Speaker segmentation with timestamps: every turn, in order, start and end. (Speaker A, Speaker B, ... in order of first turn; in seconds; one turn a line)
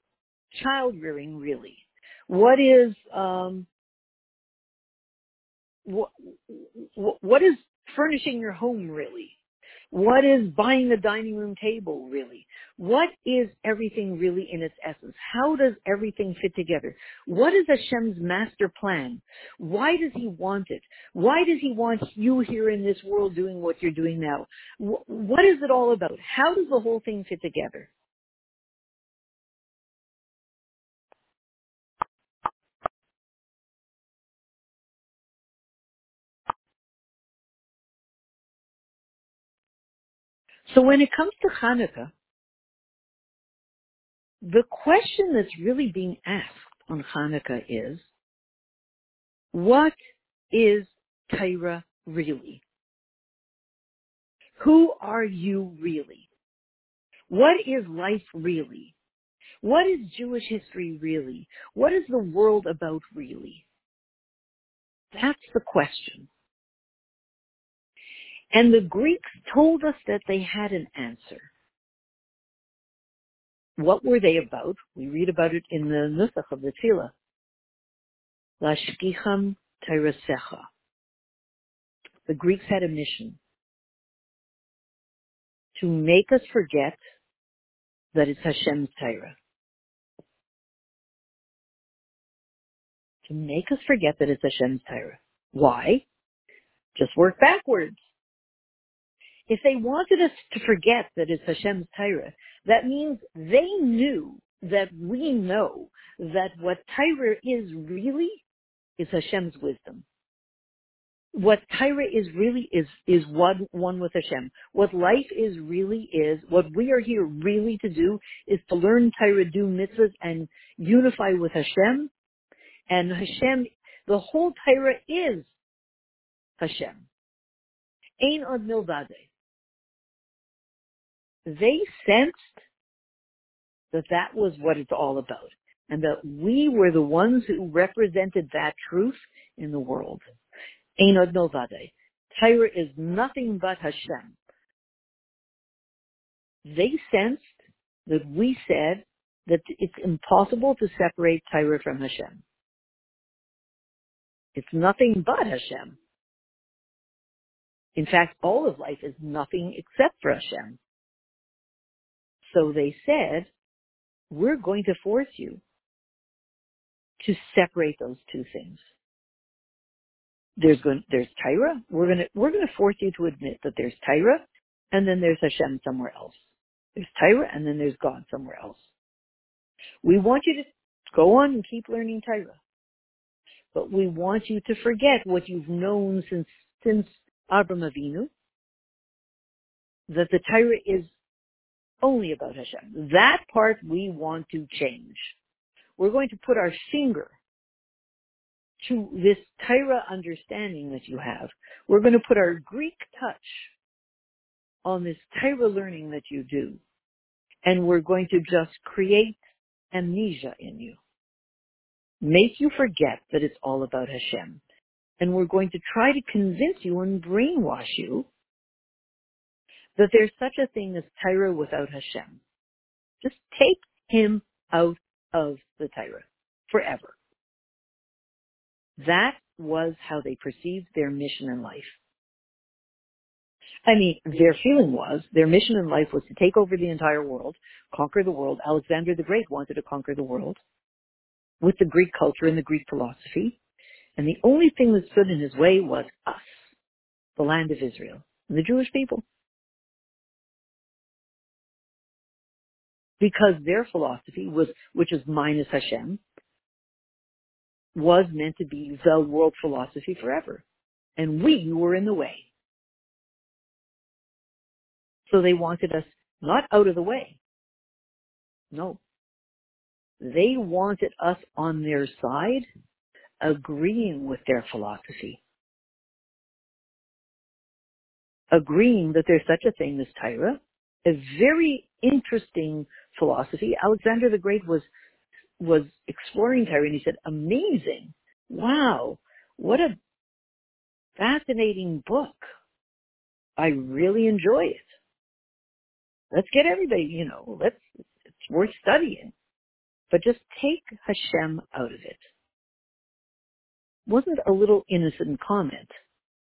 Speaker A: 0.5-3.7
Speaker A: 5.9-9.3
Speaker A: 9.9-27.9
Speaker A: 40.7-42.1
Speaker A: 44.4-48.1
Speaker A: 49.5-49.9
Speaker A: 50.5-52.6
Speaker A: 54.6-56.3
Speaker A: 57.3-59.0
Speaker A: 59.6-63.6
Speaker A: 65.1-66.3
Speaker A: 68.5-71.5
Speaker A: 73.8-77.1
Speaker A: 78.6-80.7
Speaker A: 82.3-83.4
Speaker A: 85.8-87.0
Speaker A: 88.1-89.4
Speaker A: 93.3-96.0
Speaker A: 97.0-98.0
Speaker A: 99.5-108.4
Speaker A: 109.0-110.0
Speaker A: 111.3-122.1
Speaker A: 122.9-125.5
Speaker A: 126.6-127.1
Speaker A: 128.2-129.3
Speaker A: 131.4-132.5
Speaker A: 133.9-140.2
Speaker A: 141.0-144.4
Speaker A: 146.7-147.5
Speaker A: 148.1-152.4
Speaker A: 154.6-156.0
Speaker A: 158.0-160.8
Speaker A: 162.5-163.5
Speaker A: 164.3-165.6
Speaker A: 167.2-168.8
Speaker A: 170.6-176.4
Speaker A: 177.0-178.9
Speaker A: 180.0-182.6
Speaker A: 183.7-188.3
Speaker A: 190.1-191.1
Speaker A: 192.0-195.3
Speaker A: 196.0-197.3
Speaker A: 198.8-203.7
Speaker A: 204.8-206.8
Speaker A: 207.7-209.4
Speaker A: 209.9-211.0
Speaker A: 212.2-214.6
Speaker A: 215.2-218.3
Speaker A: 220.0-222.4
Speaker A: 223.2-227.2
Speaker A: 229.0-232.0
Speaker A: 233.9-240.6
Speaker A: 241.6-243.6
Speaker A: 244.2-246.7
Speaker A: 247.4-249.2
Speaker A: 253.2-256.2
Speaker A: 257.9-260.6
Speaker A: 261.2-262.4
Speaker A: 265.3-267.4
Speaker A: 268.7-269.0
Speaker A: 270.2-272.6
Speaker A: 273.4-275.4
Speaker A: 278.5-284.9
Speaker A: 285.6-289.9
Speaker A: 291.2-292.4
Speaker A: 293.6-294.9
Speaker A: 296.3-297.8
Speaker A: 298.4-299.3
Speaker A: 300.1-302.3
Speaker A: 304.1-305.9